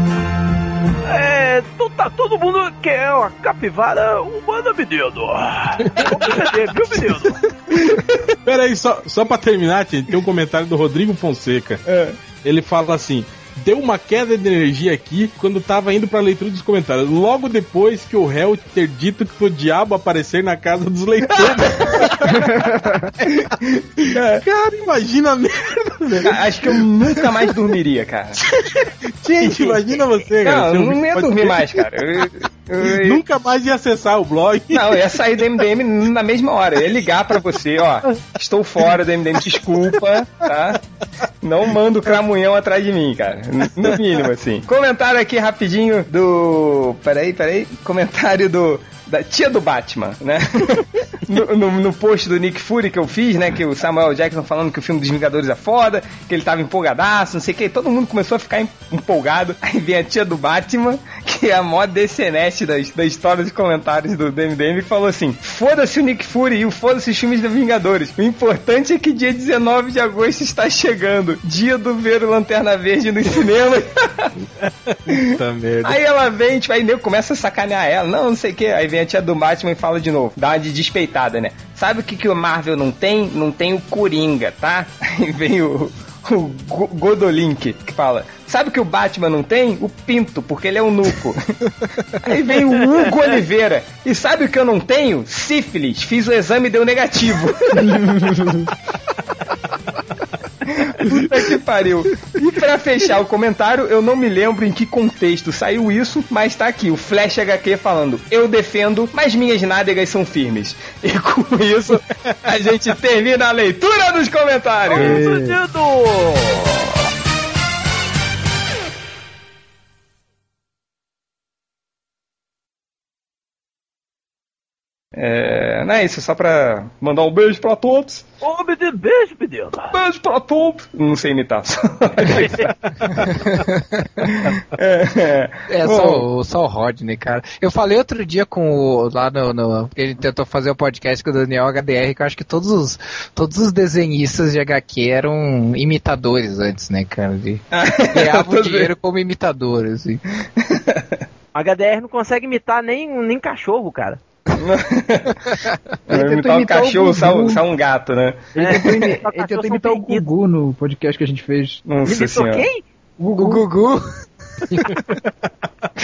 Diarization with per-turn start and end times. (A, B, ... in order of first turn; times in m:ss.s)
0:01.0-0:07.4 A
0:05.8-0:06.5 B
0:07.7-0:08.0 C
0:07.9-0:11.8 B
0:11.8-0:12.2 C
0:12.4-0:22.6 B
0:21.4-0:22.3 C
0:22.3-0:23.1 D
0:23.2-0:24.4 C
0:24.4-0:27.2 B
0:26.2-0:28.4 C
0:28.5-0:31.8 B
0:29.4-0:33.2 C
0:32.8-0:35.2 B
0:34.7-0:40.8 C
0:41.4-1:14.3 C
1:14.6-1:16.0 B
1:15.1-1:31.4 C
1:32.2-1:38.2 C
1:37.8-1:38.6 D
1:40.6-1:55.2 C
1:54.9-1:57.0 A
1:54.9-1:55.6 D
2:05.2-2:08.2 C
2:08.4-2:09.9 A
2:09.9-2:13.6 C
2:12.3-2:12.7 A
2:13.4-2:14.3 E
2:14.2-2:16.2 C
2:15.7-2:30.2 E
2:27.7-2:28.9 C
2:30.6-2:31.2 C
2:31.5-2:34.2 A
2:34.6-2:35.6 C
2:36.1-2:37.6 D
2:36.1-2:39.1 C
2:38.5-2:40.2 A
2:38.6-2:41.8 D
2:41.8-2:42.6 C
2:42.0-2:42.8 A
2:43.2-2:43.7 C
2:44.7-2:45.0 E